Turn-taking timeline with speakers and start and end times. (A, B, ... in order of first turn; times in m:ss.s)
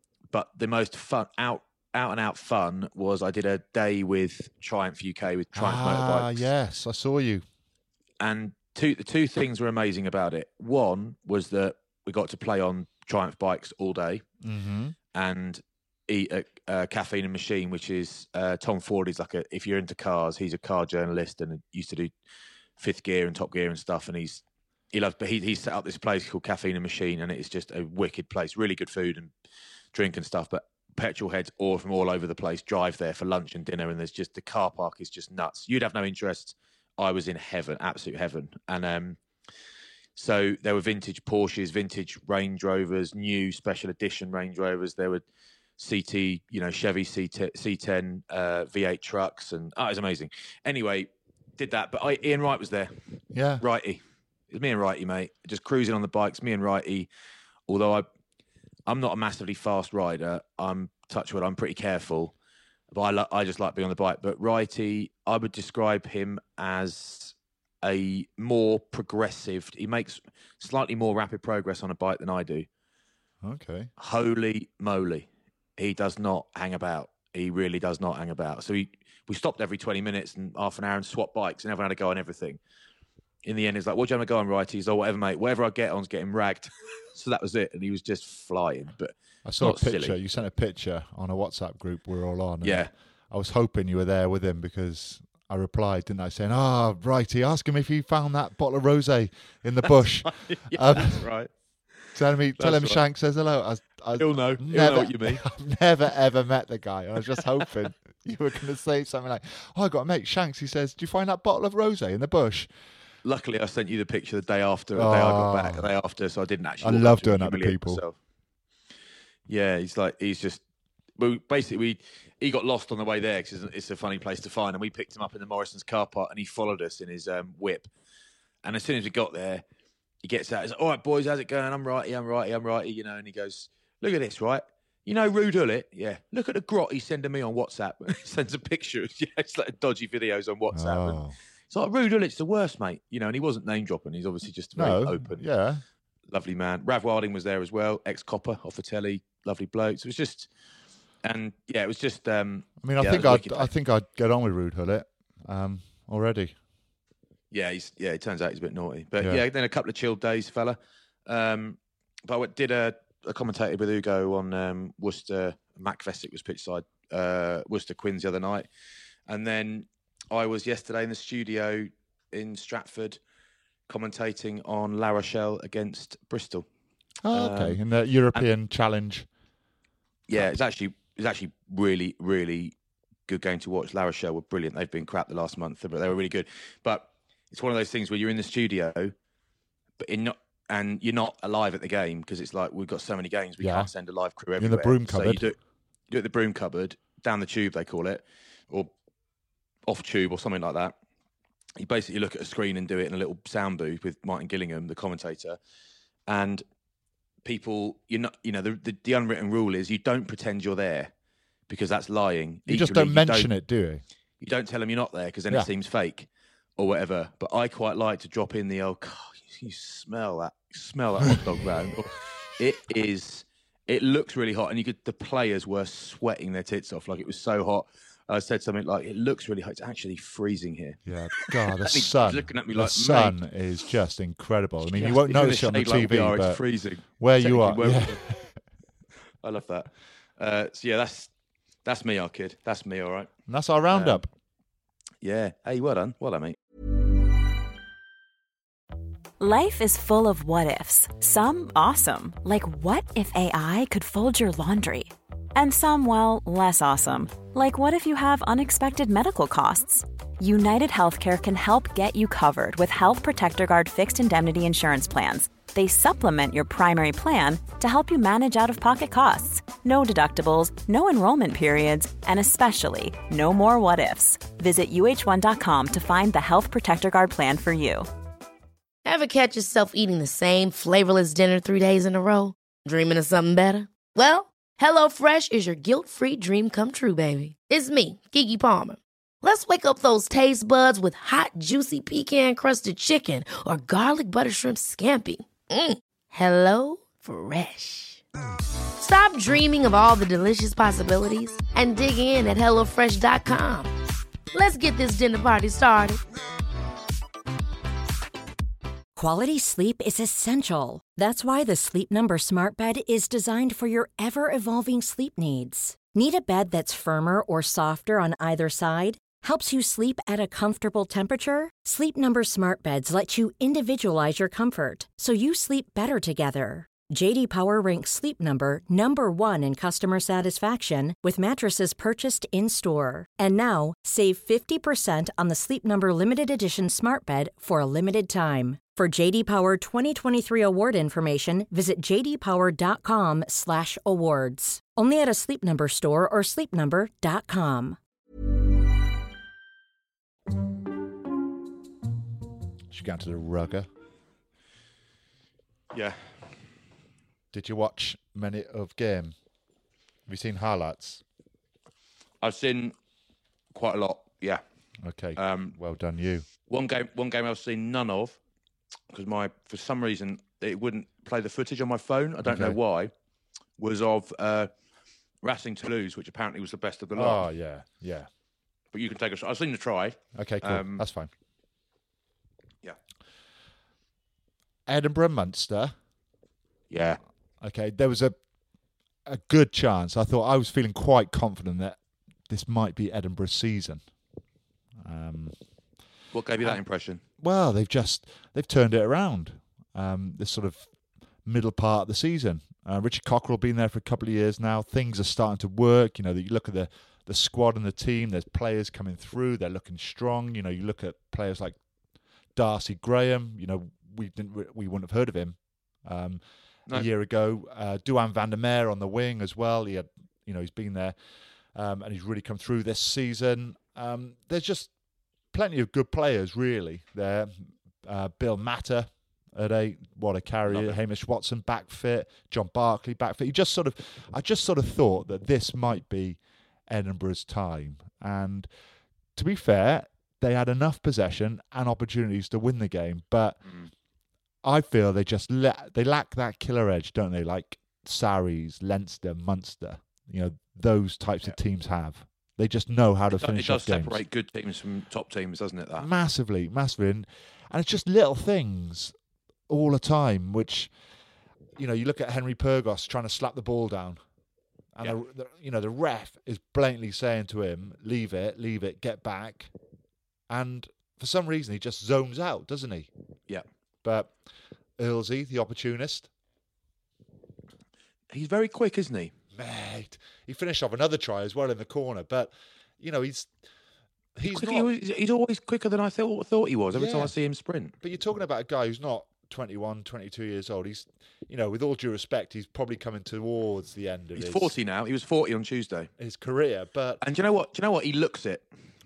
0:00.3-0:06.5 A
0:05.5-0:07.4 B
0:08.2-0:14.2 A
0:14.4-0:15.0 B
0:15.1-0:22.1 A
0:22.8-0:29.3 A
0:29.9-0:39.2 A
0:40.2-0:45.2 A
0:45.8-0:53.0 A
0:53.3-0:53.6 B
0:53.6-0:57.1 A
0:57.7-0:58.1 A
0:58.9-1:02.3 A
1:02.9-1:12.7 A
1:13.4-1:13.9 B
1:14.0-1:22.6 A
1:23.4-1:30.2 A
1:29.4-1:41.2 B
1:32.6-1:32.9 A
1:39.8-1:43.0 A
1:42.1-1:52.7 B
1:44.2-1:45.4 A
1:53.2-1:58.2 A
1:55.0-1:55.9 B
1:56.8-1:58.0 B
1:59.5-2:00.6 A
2:01.2-2:07.9 A
2:08.6-2:09.6 A
2:10.2-2:25.4 A
2:20.7-2:21.4 B
2:24.8-2:25.8 B
2:26.3-2:30.5 A
2:31.2-2:33.7 A
2:32.8-2:36.6 B
2:37.5-2:48.7 A
2:49.3-2:53.2 A
2:53.9-2:56.7 A
2:57.2-2:59.3 B
2:57.3-2:57.8 A
3:00.3-3:02.7 A
3:03.3-3:09.1 A
3:10.0-3:15.6 A
3:13.6-3:13.9 B
3:14.6-3:15.5 B
3:16.1-3:18.9 A
3:19.9-3:21.0 A
3:21.8-3:25.6 A
3:26.3-3:26.6 A
3:27.4-3:31.1 A
3:31.7-3:33.5 A
3:32.7-3:34.0 B
3:34.4-3:53.4 A
3:51.1-3:56.6 B
3:54.9-3:58.2 A
3:57.2-3:58.5 B
3:59.4-4:01.3 A
4:01.8-4:03.3 A
4:03.5-4:04.3 B
4:03.9-4:04.2 A
4:05.2-4:06.6 A
4:09.4-4:38.1 C
4:39.1-4:58.2 D
4:59.0-5:03.9 D
5:04.5-5:06.2 D
5:09.2-5:48.0 E
5:52.9-5:53.9 B
5:55.9-5:56.7 A
5:57.5-5:59.4 B
6:00.3-6:01.2 B
6:02.4-6:03.0 A
6:03.7-6:04.6 A
6:05.0-6:06.5 B
6:05.4-6:05.8 A
6:06.7-6:08.4 A
6:09.1-6:13.1 A
6:12.4-6:12.8 B
6:13.8-6:14.7 A
6:15.4-6:17.5 A
6:17.2-6:18.3 B
6:18.9-6:21.0 A
6:20.4-6:21.3 B
6:24.9-6:26.0 B
6:26.9-6:27.2 A
6:27.6-6:28.4 B
6:29.3-6:34.1 B
6:35.0-6:35.6 B
6:36.3-6:37.2 A
6:37.4-6:40.9 B
6:41.4-6:51.8 B
6:52.5-7:01.2 B
7:01.7-7:04.9 B
7:05.5-7:18.7 B
7:10.7-7:11.0 A
7:19.4-7:23.6 B
7:24.6-7:34.2 B
7:33.3-7:36.1 A
7:36.0-7:39.2 B
7:39.7-7:40.9 B
7:41.8-7:44.2 B
7:44.9-7:49.7 B
7:50.5-7:53.1 B
7:54.0-7:54.4 B
7:55.0-7:56.3 B
7:58.3-7:59.3 A
7:59.5-8:03.5 B
8:04.4-8:04.9 B
8:04.5-8:08.0 A
8:06.9-8:07.4 B
8:08.0-8:14.7 B
8:14.4-8:16.1 A
8:16.2-8:17.2 B
8:17.2-8:18.7 A